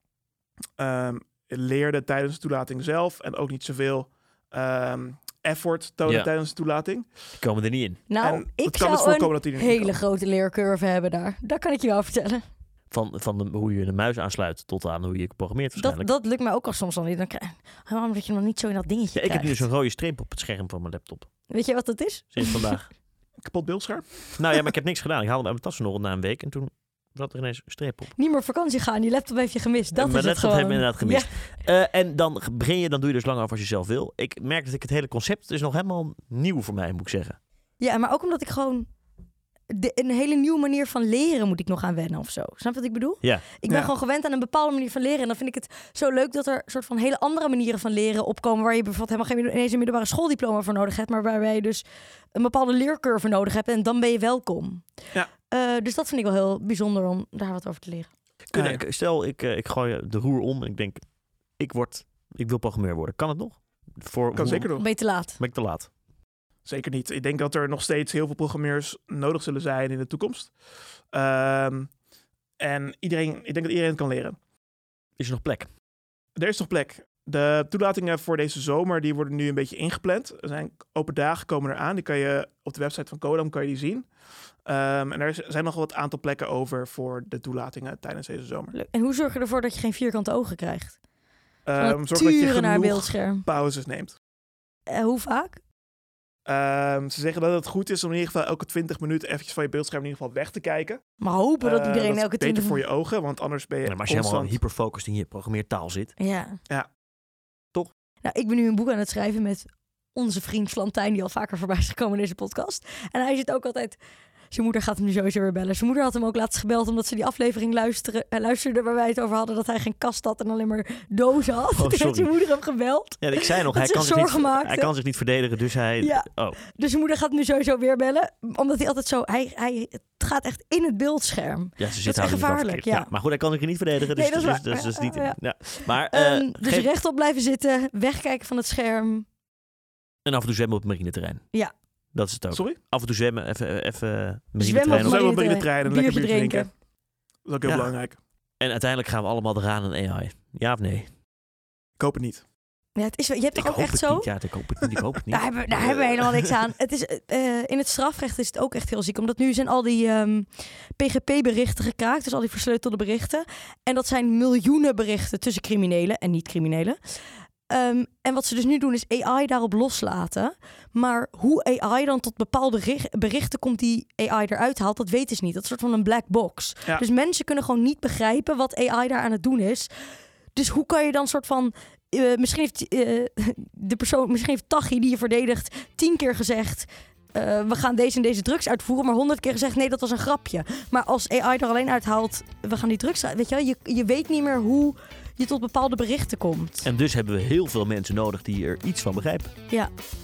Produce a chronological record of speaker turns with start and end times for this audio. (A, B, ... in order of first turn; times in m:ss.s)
0:00.8-0:07.1 A
0:07.4-0:08.0 B
0:08.1-0:12.4 C
0:08.2-0:09.9 A
0:12.9-0:16.1 B
0:15.8-0:19.6 C
0:19.1-0:21.3 B
0:21.5-0:22.7 C
0:22.3-0:22.9 B
0:23.4-0:24.3 A
0:24.4-0:28.1 B
0:28.2-0:31.3 C
0:29.9-0:37.4 B
0:37.8-0:38.9 C
0:39.7-0:51.8 C
0:52.3-0:54.8 C
0:55.5-0:58.1 C
0:58.5-1:01.0 B
0:58.5-0:58.8 A
1:01.6-1:04.7 B
1:04.3-1:04.8 A
1:04.7-1:05.4 C
1:05.4-1:05.9 B
1:06.6-1:10.5 A
1:11.1-1:11.9 A
1:12.6-1:14.4 A
1:15.2-1:15.7 B
1:16.4-1:24.1 A
1:24.6-1:28.7 A
1:28.7-1:31.0 C
1:31.6-1:34.2 A
1:31.8-1:33.4 C
1:34.9-1:35.6 C
1:36.4-1:41.0 A
1:41.2-1:42.8 C
1:41.6-1:44.6 A
1:43.8-1:46.1 B
1:46.2-1:46.6 C
1:48.2-1:54.0 C
1:54.5-2:04.9 C
2:01.7-2:02.3 B
2:03.2-2:06.6 B
2:06.0-2:13.1 C
2:11.8-2:16.9 B
2:14.1-2:19.2 C
2:20.2-2:21.4 B
2:22.1-2:25.2 B
2:22.5-2:22.8 A
2:24.6-2:26.7 C
2:24.9-2:26.7 A
2:27.4-2:28.2 A
2:27.6-2:27.9 B
2:28.6-2:31.1 B
2:32.0-2:32.4 A
2:33.0-2:34.3 C
2:33.5-2:36.5 B
2:35.3-2:59.9 C
3:00.5-3:16.9 C
3:16.8-3:19.5 B